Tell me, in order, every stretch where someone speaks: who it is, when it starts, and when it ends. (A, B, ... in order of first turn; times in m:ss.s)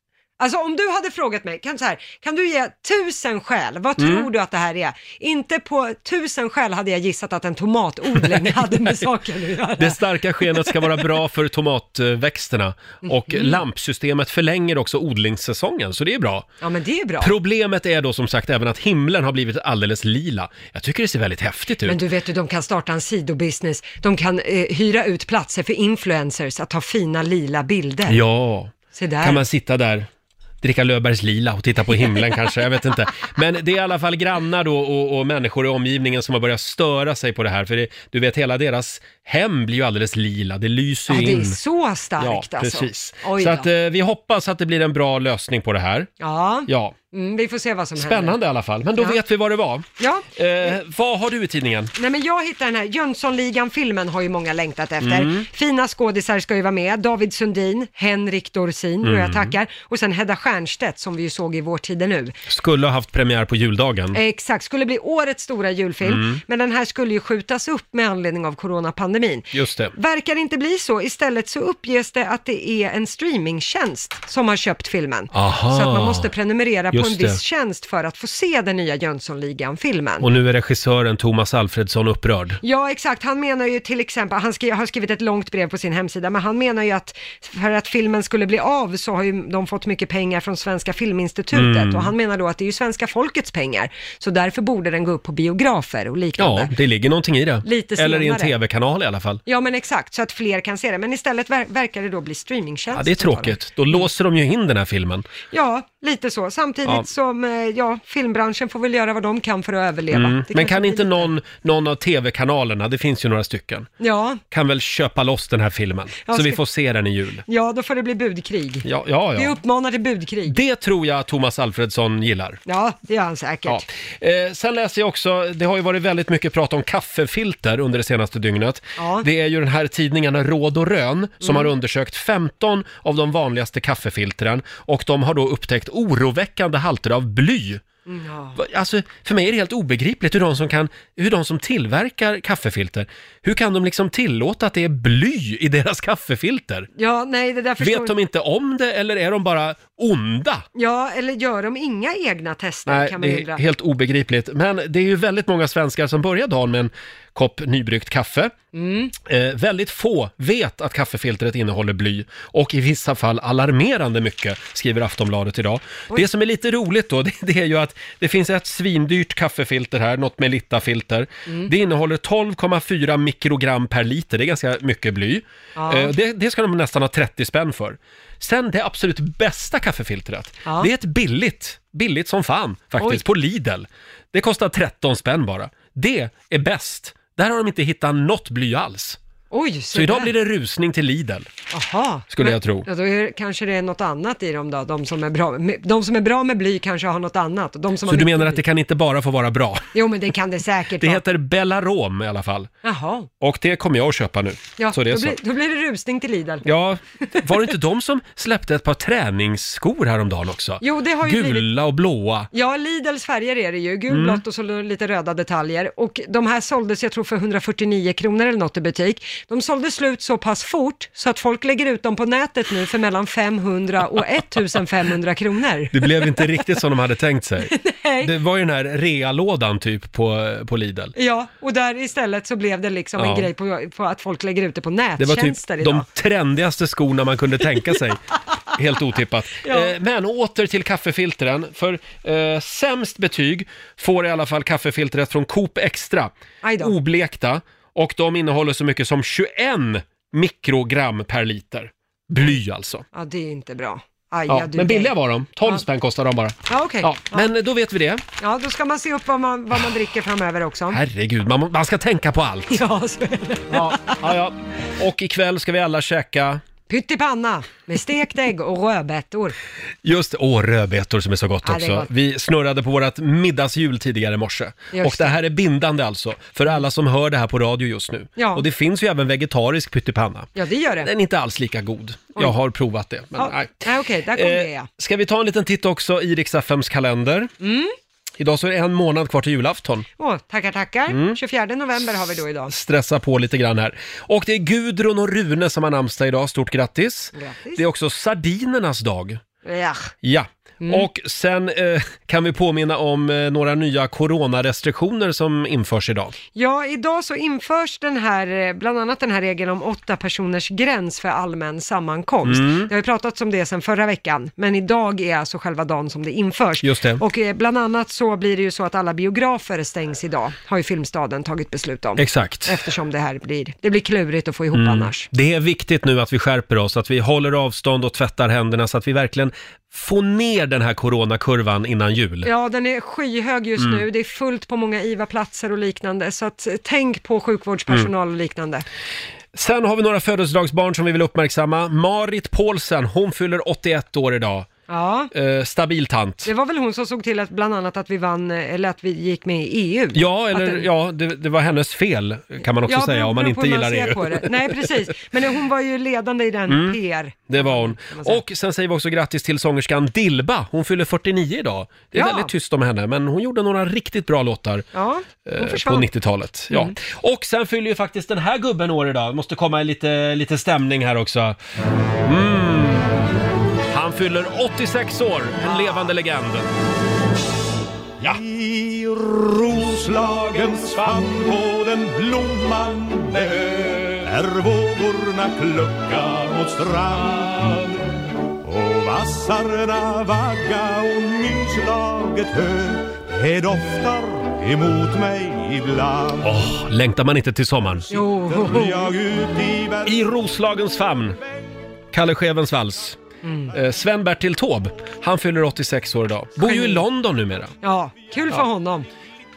0:00.4-0:10.9 A
0:04.0-0:04.3 B
0:09.8-0:16.5 B
0:13.0-0:13.6 A
0:16.6-0:17.3 A
0:17.2-0:22.0 B
0:21.8-0:28.2 A
0:28.1-0:30.1 B
0:28.9-0:29.4 A
0:30.6-0:41.6 B
0:41.1-0:43.7 A
0:42.2-0:46.1 B
0:46.2-0:48.4 A
0:46.7-0:46.9 B
0:48.0-0:51.9 B
0:50.0-0:50.3 A
0:52.0-1:02.4 A
0:55.0-0:55.5 B
0:59.0-0:59.5 B
1:02.5-1:04.2 B
1:04.1-1:20.3 A
1:06.0-1:06.4 B
1:09.5-1:09.9 B
1:15.3-1:16.3 B
1:16.9-1:17.4 B
1:20.2-1:22.6 B
1:22.6-1:36.7 A
1:31.5-1:32.1 B
1:36.4-1:39.4 B
1:37.6-1:38.5 A
1:39.4-1:44.1 A
1:42.9-1:45.3 B
1:45.5-1:51.3 A
1:50.1-1:53.9 B
1:54.0-1:54.4 A
1:54.5-1:57.4 B
1:56.2-1:56.6 A
1:57.5-2:00.6 A
1:58.8-1:59.6 B
2:00.5-2:02.6 B
2:02.6-2:03.8 A
2:03.7-2:17.8 B
2:09.0-2:09.3 A
2:11.4-2:11.7 A
2:18.1-2:18.6 A
2:18.6-2:26.9 B
2:27.0-2:28.1 A
2:27.8-2:30.6 B
2:30.7-2:33.6 A
2:32.9-2:38.5 B
2:38.7-2:39.1 A
2:39.2-3:09.2 B
2:55.8-2:56.1 A
3:00.6-3:00.9 A
3:03.0-3:03.2 A
3:09.5-3:10.3 A
3:09.9-3:11.5 B
3:11.7-3:18.6 A
3:12.3-3:12.9 B
3:18.0-3:19.9 B
3:19.9-3:21.2 A
3:21.0-3:22.7 B
3:22.8-3:23.3 A
3:23.4-3:25.4 B
3:24.8-3:26.6 A
3:26.6-3:32.5 B
3:30.8-3:31.7 A
3:32.5-3:46.5 A
3:34.1-3:34.4 B
3:45.9-3:51.1 B
3:47.7-3:48.3 A
3:51.2-3:56.1 A
3:53.2-3:53.5 B
3:55.2-3:58.2 B
3:58.7-4:13.0 B
3:59.6-3:59.9 A
4:06.6-4:06.9 A
4:13.1-4:15.8 A
4:14.5-4:18.2 B
4:16.7-4:17.5 A
4:18.4-4:21.0 A
4:20.9-4:22.8 B
4:22.7-4:24.2 A
4:23.7-4:26.6 B
4:26.9-4:29.5 A
4:30.0-4:47.5 B
4:31.6-4:32.1 A
4:34.9-4:35.4 A
4:38.4-4:38.6 A
4:40.6-4:41.1 A
4:43.4-4:44.9 A
4:47.6-4:47.9 A
4:48.4-4:50.0 B
4:50.2-4:52.7 A
4:51.1-4:51.4 B
4:52.7-4:59.4 B
4:57.3-4:57.8 A
4:59.6-5:00.1 A
5:00.2-5:06.3 B
5:00.8-5:01.1 A
5:06.5-5:25.3 A
5:12.4-5:12.9 B
5:16.8-5:17.2 B
5:22.2-5:22.8 B
5:24.7-5:32.5 B
5:32.4-5:38.8 A
5:39.5-5:44.7 B
5:44.9-5:45.3 A
5:45.3-5:46.5 B
5:46.4-5:50.8 A
5:50.1-5:54.8 B
5:52.8-5:58.4 A
5:56.7-5:57.0 B
5:57.5-6:04.9 B
6:02.1-6:02.5 A
6:04.9-6:06.1 A
6:05.4-6:11.6 B
6:06.7-6:06.9 A
6:12.2-6:13.3 B
6:13.9-6:16.7 B
6:15.6-6:16.0 A
6:18.3-6:27.9 C
6:20.2-6:21.2 B
6:23.8-6:24.2 B
6:28.6-6:36.5 C
6:36.4-6:38.1 B
6:38.1-6:40.3 C
6:38.1-6:39.1 A
6:40.0-6:41.4 B
6:42.1-6:43.2 B
6:43.4-6:43.7 A
6:43.7-6:47.7 B
6:46.6-6:47.0 A
6:47.8-6:49.1 A